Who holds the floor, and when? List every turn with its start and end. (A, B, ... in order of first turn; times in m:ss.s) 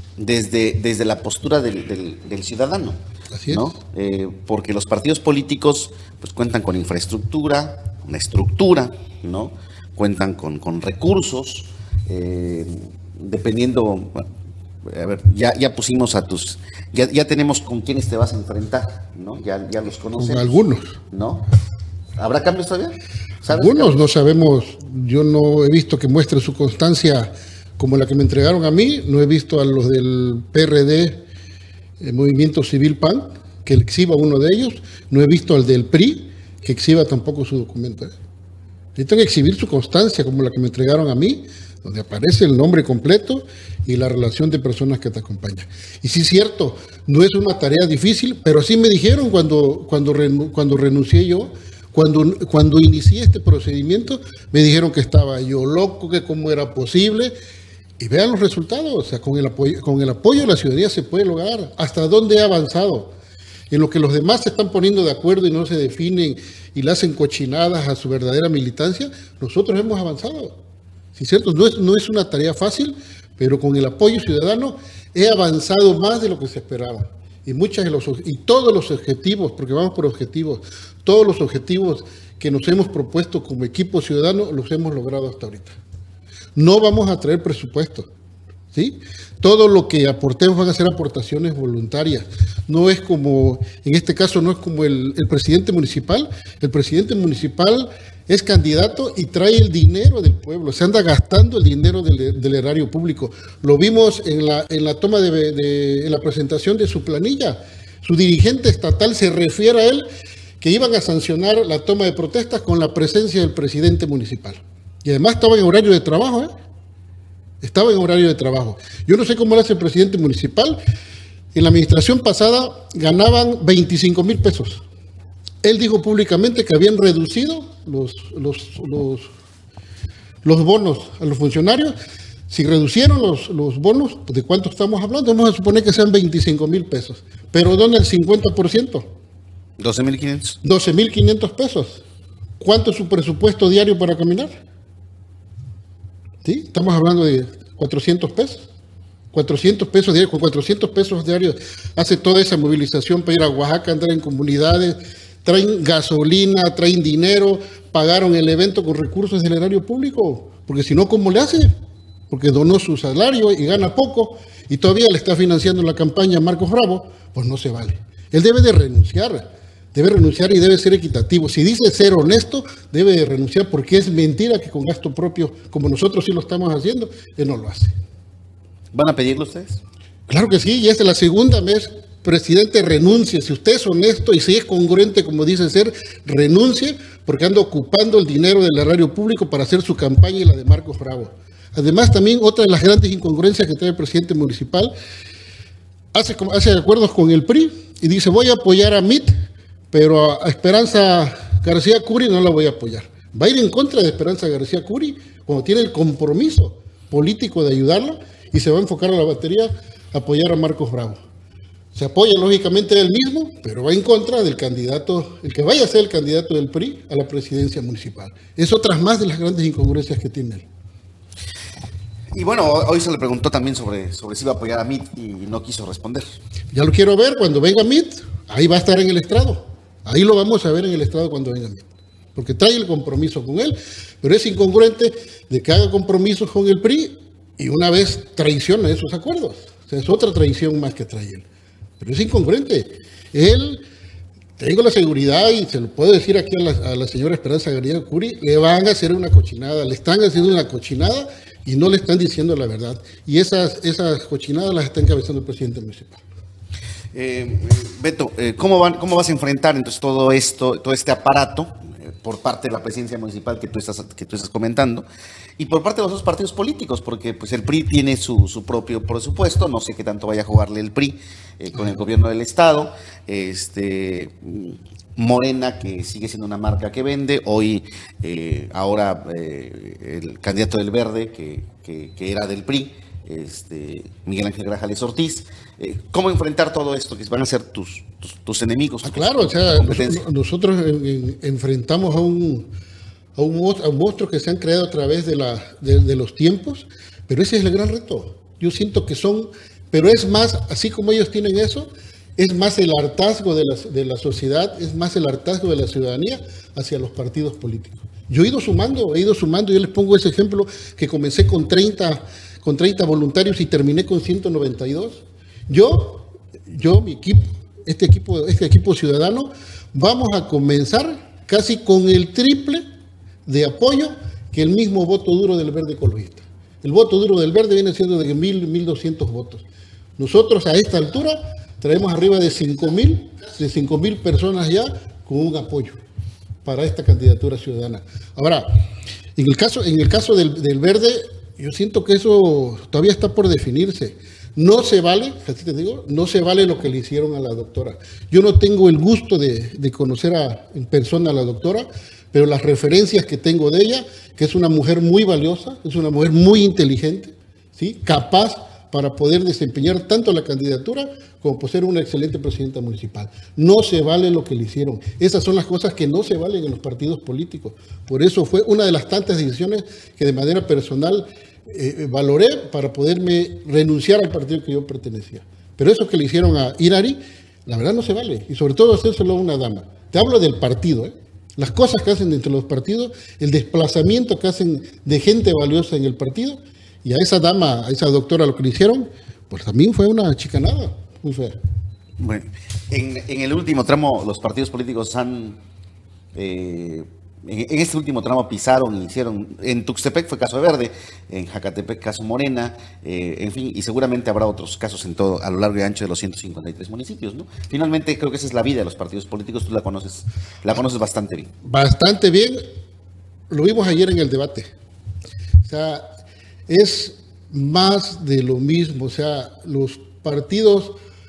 0:00.2-0:14.2 A
0:03.3-0:03.6 B
0:14.9-0:21.4 A
0:20.2-0:21.0 B
0:22.2-0:24.0 A
0:23.5-0:31.2 B
0:32.0-0:38.1 B
0:39.0-0:57.3 B
0:58.0-1:03.1 B
1:03.7-1:10.6 B
1:11.2-1:25.8 B
1:26.6-1:28.1 B
1:28.7-1:50.1 B
1:50.6-1:56.5 B
1:57.6-2:00.8 B
2:01.5-2:04.8 B
2:05.6-2:09.3 B
2:10.4-2:12.0 B
2:12.5-2:19.1 B
2:19.8-2:20.6 A
2:20.6-2:22.0 B
2:22.6-2:24.6 B
2:26.4-2:28.6 B
2:29.3-2:41.7 B
2:42.3-2:57.9 B
2:58.9-2:59.8 A
3:00.3-3:14.9 B
3:16.1-3:19.3 B
3:19.9-3:31.2 B
3:31.9-3:40.6 B
3:42.4-3:46.2 A
3:46.7-4:01.4 B
4:02.0-4:03.8 B
4:04.6-4:16.2 B
4:17.1-4:25.0 A
4:25.6-4:50.2 A
4:49.0-4:52.7 B
4:53.4-5:22.8 B
5:23.5-5:29.6 B
5:30.2-5:36.0 B
5:36.6-5:38.7 B
5:39.4-6:31.6 B
6:32.2-6:35.6 A
6:36.4-6:51.5 A
6:51.6-6:52.6 B
6:53.5-6:54.7 B
6:55.6-6:56.0 B
6:56.7-7:01.0 B